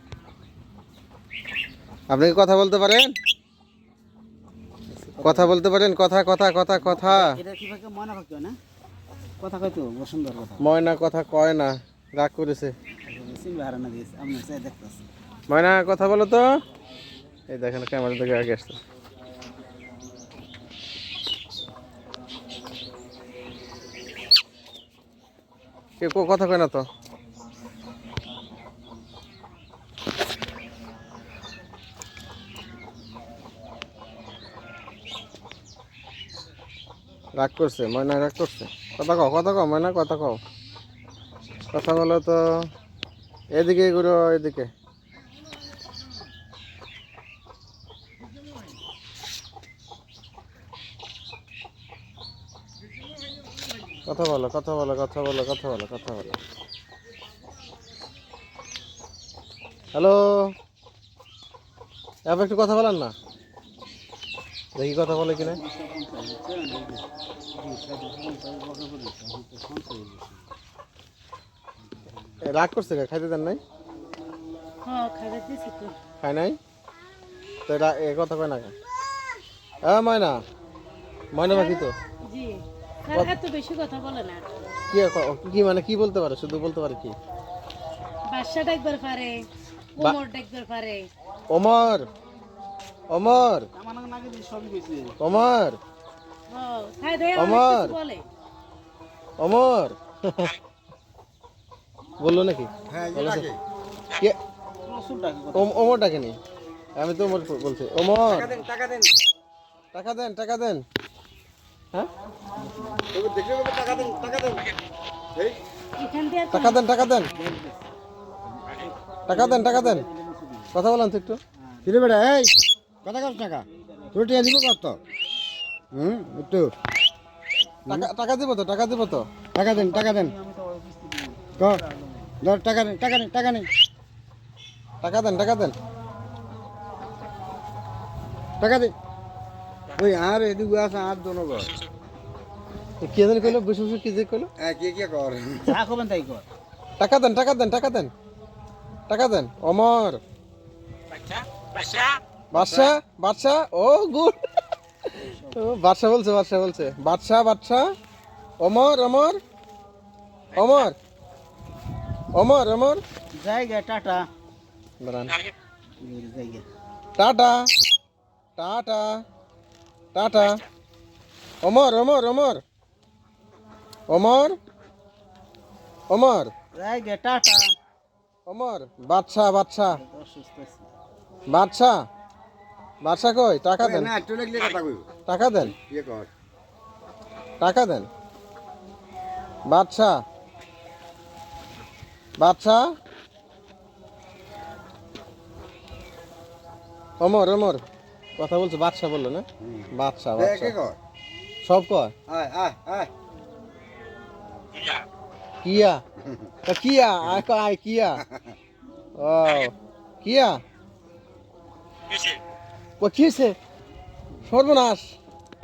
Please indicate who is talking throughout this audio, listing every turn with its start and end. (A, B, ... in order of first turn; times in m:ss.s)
0:02.1-0:03.1 A
0:04.9-0:05.6 B
0:05.2-0:07.4 A
0:06.8-0:08.6 B
0:09.4-0:10.7 B
0:10.6-0:12.7 A
0:13.1-0:15.1 B
0:15.5-0:16.5 A
0:17.5-0:18.8 A
0:26.0-0:26.8 A
0:37.4-0:40.4 A
0:41.7-0:42.4 A
0:43.5-0:44.7 A
0:54.1-0:56.4 A
0:59.9-1:00.6 A
1:02.3-1:03.1 A
1:04.8-1:05.6 A
1:05.1-1:10.5 B
1:11.8-1:12.5 B
1:12.4-1:13.6 A
1:14.8-1:16.0 C
1:16.2-1:16.6 A
1:17.7-1:18.7 A
1:19.8-1:20.4 A
1:21.3-1:21.9 A
1:21.5-1:24.5 C
1:24.9-1:27.2 A
1:28.3-1:29.4 C
1:30.0-1:31.1 C
1:31.5-1:32.1 A
1:33.1-1:33.7 A
1:33.7-1:35.2 B
1:35.2-1:35.8 A
1:36.5-1:38.3 C
1:37.4-1:38.0 A
1:39.4-1:40.6 A
1:42.2-1:43.5 A
1:42.9-1:43.6 D
1:44.8-1:46.1 B
1:45.6-1:46.4 A
1:47.0-1:48.6 A
1:48.3-1:49.1 D
1:49.9-1:50.8 A
1:52.6-1:53.1 B
1:53.1-1:54.6 D
1:53.8-1:54.7 B
1:56.0-1:57.0 C
1:56.5-1:57.3 A
1:57.0-1:57.9 B
1:58.5-2:00.8 B
1:59.3-2:00.0 A
2:00.7-2:01.4 A
2:01.5-2:02.0 B
2:01.8-2:02.5 D
2:03.0-2:05.0 D
2:03.2-2:04.7 B
2:05.9-2:06.7 D
2:07.9-2:09.3 A
2:09.5-2:10.3 D
2:09.7-2:12.4 B
2:12.4-2:13.7 D
2:15.0-2:15.8 A
2:18.6-2:18.9 D
2:20.0-2:21.7 D
2:23.0-2:24.5 A
2:24.6-2:25.8 D
2:25.7-2:26.5 B
2:27.0-2:28.1 A
2:29.1-2:30.2 A
2:32.5-2:34.4 A
2:35.1-2:37.8 A
2:35.2-2:35.8 B
2:38.6-2:39.4 A
2:40.6-2:41.0 A
2:42.3-2:43.0 A
2:43.4-2:44.2 B
2:45.0-2:45.4 A
2:46.0-2:46.7 B
2:47.2-2:47.7 A
2:48.6-2:49.2 A
2:50.1-2:50.6 A
2:51.6-2:52.6 A
2:54.1-2:54.6 A
2:56.1-2:56.5 A
2:56.7-2:57.6 B
2:58.5-3:00.0 A
2:59.9-3:00.9 B
3:01.5-3:02.0 A
3:03.0-3:04.1 A
3:03.8-3:05.1 D
3:05.3-3:05.7 A
3:05.6-3:06.3 D
3:07.6-3:08.1 A
3:09.7-3:10.2 A
3:12.4-3:12.9 A
3:17.2-3:17.8 A
3:18.4-3:20.8 A
3:19.6-3:21.0 D
3:21.6-3:22.1 A
3:22.3-3:23.1 D
3:25.6-3:26.0 A
3:26.2-3:26.5 D
3:26.7-3:28.2 A
3:28.2-3:28.5 D
3:29.2-3:30.6 A
3:33.0-3:33.6 A
3:34.5-3:35.2 A